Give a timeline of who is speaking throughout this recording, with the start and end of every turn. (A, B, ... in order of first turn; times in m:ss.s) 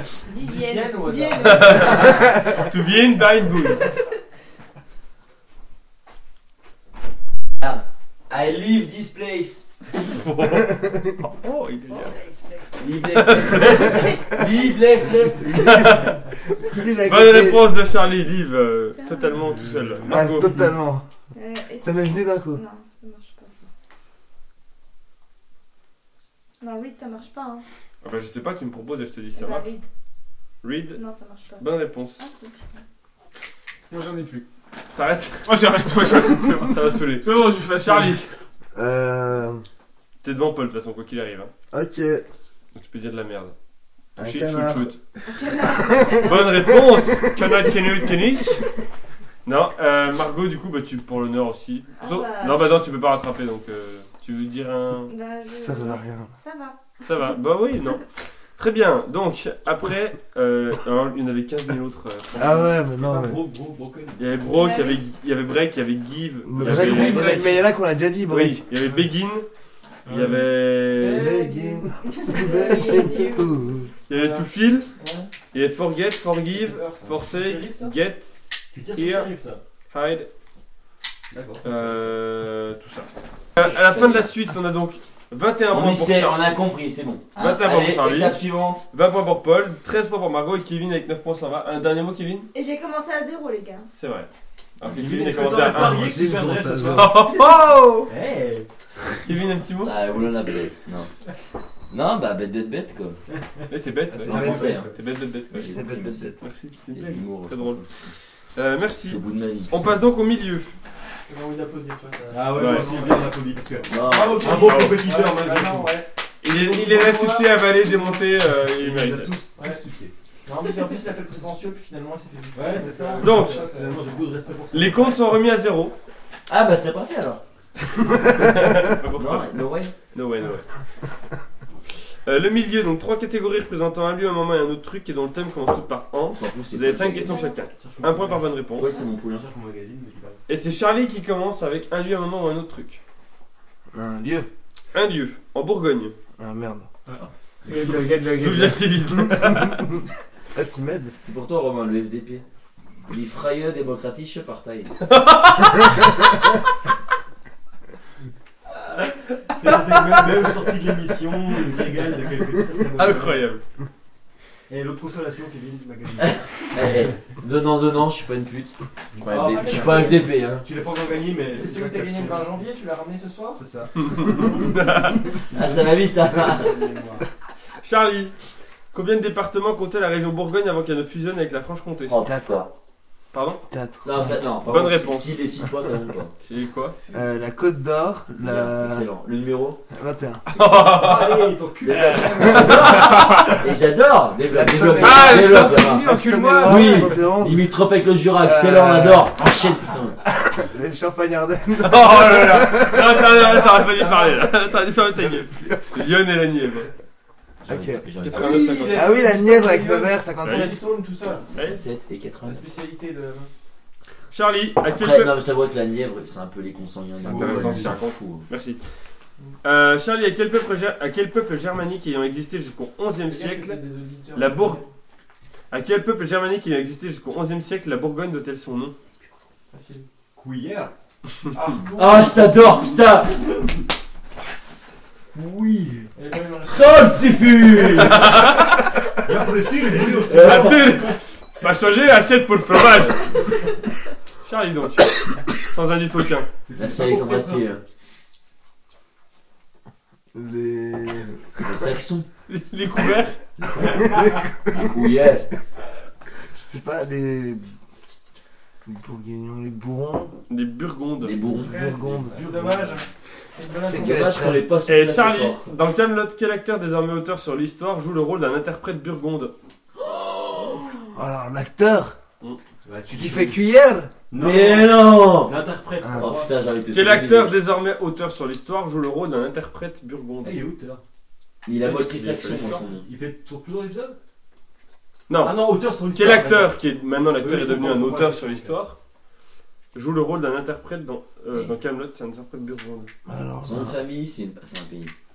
0:00.3-0:02.5 A
0:00.3-0:02.0 B
0:01.4-0:03.9 C
0:03.6-0:04.0 A
0:07.6-0:09.6 D
0:10.0-0:12.2 C
0:12.8-0:15.7 D
0:13.1-0:14.1 C
0:13.9-0:14.4 A
0:15.4-0:17.7 E
0:15.5-0:16.2 C
0:17.0-0:20.6 C
0:19.0-0:19.3 A
0:20.1-0:21.0 E
0:21.3-0:23.7 A
0:21.8-0:22.6 E
0:26.6-0:27.6 A
0:28.0-0:29.7 C
0:29.3-0:29.8 A
0:30.6-0:31.0 C
0:31.0-0:32.8 A
0:31.6-0:32.2 C
0:33.9-0:34.4 F
0:34.9-0:35.9 C
0:35.5-0:38.2 F
0:36.6-0:38.3 C
0:38.8-0:39.6 E
0:40.2-0:41.5 C
0:41.7-0:42.2 E
0:42.8-0:43.5 C
0:44.2-0:45.0 C
0:44.2-0:45.0 E
0:45.3-0:46.7 A
0:45.5-0:47.7 E
0:46.2-0:48.6 C
0:49.4-0:55.1 C
0:52.0-0:52.8 A
0:55.1-0:56.8 A
0:55.5-0:56.3 E
0:57.0-1:02.8 C
1:02.4-1:03.4 E
1:02.9-1:04.3 G
1:04.2-1:07.5 C
1:04.4-1:05.1 A
1:06.4-1:08.6 E
1:06.6-1:07.7 F
1:08.3-1:09.5 C
1:08.8-1:09.1 F
1:10.1-1:10.5 F
1:10.1-1:11.3 C
1:10.9-1:13.0 B
1:11.0-1:13.9 E
1:12.0-1:13.8 A
1:14.1-1:14.9 C
1:14.1-1:15.3 B
1:15.5-1:19.3 C
1:16.5-1:17.9 B
1:17.2-1:17.8 G
1:18.7-1:19.6 G
1:19.9-1:20.3 C
1:21.3-1:21.9 G
1:21.6-1:26.4 C
1:23.6-1:24.3 D
1:25.7-1:28.9 D
1:27.4-1:32.5 C
1:32.5-1:33.9 A
1:33.9-1:34.3 C
1:34.8-1:36.1 C
1:34.9-1:38.7 G
1:35.8-1:37.2 E
1:36.8-1:38.1 C
1:39.2-1:40.1 C
1:39.8-1:41.1 D
1:41.9-1:43.2 D
1:43.3-1:43.7 G
1:43.7-1:45.9 C
1:44.1-1:44.8 E
1:44.3-1:44.9 D
1:44.3-1:44.9 G
1:45.5-1:46.3 D
1:45.5-1:46.4 E
1:46.4-1:48.0 C
1:46.9-1:48.1 D
1:48.5-1:50.8 C
1:49.1-1:50.0 D
1:51.3-1:53.3 B
1:52.3-1:55.9 G
1:52.6-1:53.0 C
1:53.9-1:55.0 D
1:53.9-1:57.7 B
1:54.6-1:55.0 C
1:56.4-1:59.4 C
1:58.6-2:00.1 G
1:59.6-1:59.8 B
2:00.4-2:04.1 B
2:02.5-2:05.3 G
2:03.2-2:03.6 C
2:04.7-2:06.0 C
2:06.5-2:07.4 D
2:08.2-2:09.6 C
2:09.2-2:09.9 D
2:10.1-2:10.7 C
2:12.2-2:19.0 C
2:16.3-2:17.4 D
2:17.2-2:17.6 A
2:17.7-2:20.4 G
2:18.8-2:19.5 D
2:20.5-2:23.0 C
2:23.9-2:24.5 E
2:24.9-2:26.2 C
2:26.4-2:26.9 E
2:27.1-2:28.2 G
2:27.7-2:29.0 F
2:28.3-2:29.9 C
2:29.3-2:30.0 E
2:30.5-2:31.1 E
2:31.2-2:32.4 D
2:33.1-2:34.9 D
2:35.0-2:36.0 C
2:39.6-2:43.5 G
2:39.7-2:40.3 C
2:43.0-2:43.6 C
2:44.7-2:46.8 G
2:46.2-2:50.6 D
2:49.2-2:52.6 G
2:49.3-2:50.3 B
2:51.5-2:53.6 B
2:53.6-2:53.9 G
2:54.0-2:55.3 C
2:55.5-2:56.8 D
2:55.6-2:55.9 G
2:56.5-2:57.2 G
2:56.6-2:56.9 B
2:57.8-2:58.3 C
2:58.9-3:02.2 C
3:02.1-3:02.7 D
3:03.3-3:03.6 C
3:03.7-3:04.5 E
3:04.0-3:06.3 D
3:04.6-3:05.4 C
3:06.4-3:07.0 C
3:07.1-3:09.1 E
3:08.4-3:09.8 D
3:09.9-3:10.4 E
3:10.5-3:11.5 C
3:10.7-3:13.0 G
3:11.8-3:20.2 D
3:14.5-3:17.7 E
3:15.0-3:17.2 F
3:18.4-3:19.3 E
3:20.4-3:23.6 E
3:21.8-3:26.9 C
3:23.9-3:24.5 B
3:25.0-3:26.1 E
3:27.6-3:28.8 D
3:27.7-3:28.1 E
3:28.2-3:29.2 C
3:28.3-3:31.5 B
3:28.9-3:30.8 E
3:30.4-3:30.8 C
3:31.5-3:31.8 C
3:31.5-3:32.6 D
3:32.4-3:33.5 B
3:34.3-3:35.4 C
3:34.9-3:38.5 D
3:37.2-3:38.0 G
3:37.2-3:38.8 C
3:39.6-3:43.8 C
3:43.3-3:44.9 B
3:44.4-3:44.8 C
3:45.7-3:49.0 C
3:49.7-3:50.1 B
3:50.4-3:50.9 G
3:51.5-3:52.8 B
3:52.0-3:53.5 D
3:55.5-3:56.0 G
3:56.2-3:57.5 B
3:56.6-3:58.3 D
3:58.0-3:58.8 C
3:59.2-4:01.1 G
4:00.2-4:03.6 C
4:00.3-4:00.9 D
4:04.4-4:06.5 C
4:06.7-4:07.7 G
4:06.8-4:07.8 D
4:10.3-4:11.8 E
4:11.6-4:12.3 D
4:12.5-4:13.4 C
4:13.6-4:15.5 D
4:16.5-4:17.7 E
4:18.9-4:20.3 E
4:20.5-4:21.4 C
4:21.2-4:21.8 D
4:21.6-4:24.6 B
4:21.6-4:22.7 E
4:22.3-4:23.0 G
4:23.8-4:24.6 E
4:23.9-4:25.7 D
4:24.8-4:29.5 C
4:30.0-4:30.9 D
4:31.1-4:32.2 E
4:32.8-4:33.6 G
4:33.1-4:34.1 E
4:34.3-4:36.6 G
4:34.4-4:35.6 D
4:36.0-4:36.3 E
4:36.2-4:37.6 D
4:36.9-4:40.7 C
4:40.4-4:41.0 G
4:41.6-4:43.1 D
4:41.8-4:44.2 G
4:42.0-4:42.8 C
4:45.3-4:49.0 C
4:45.4-4:48.8 G
4:49.9-4:53.1 C
4:53.3-4:54.0 E
4:53.6-4:55.1 D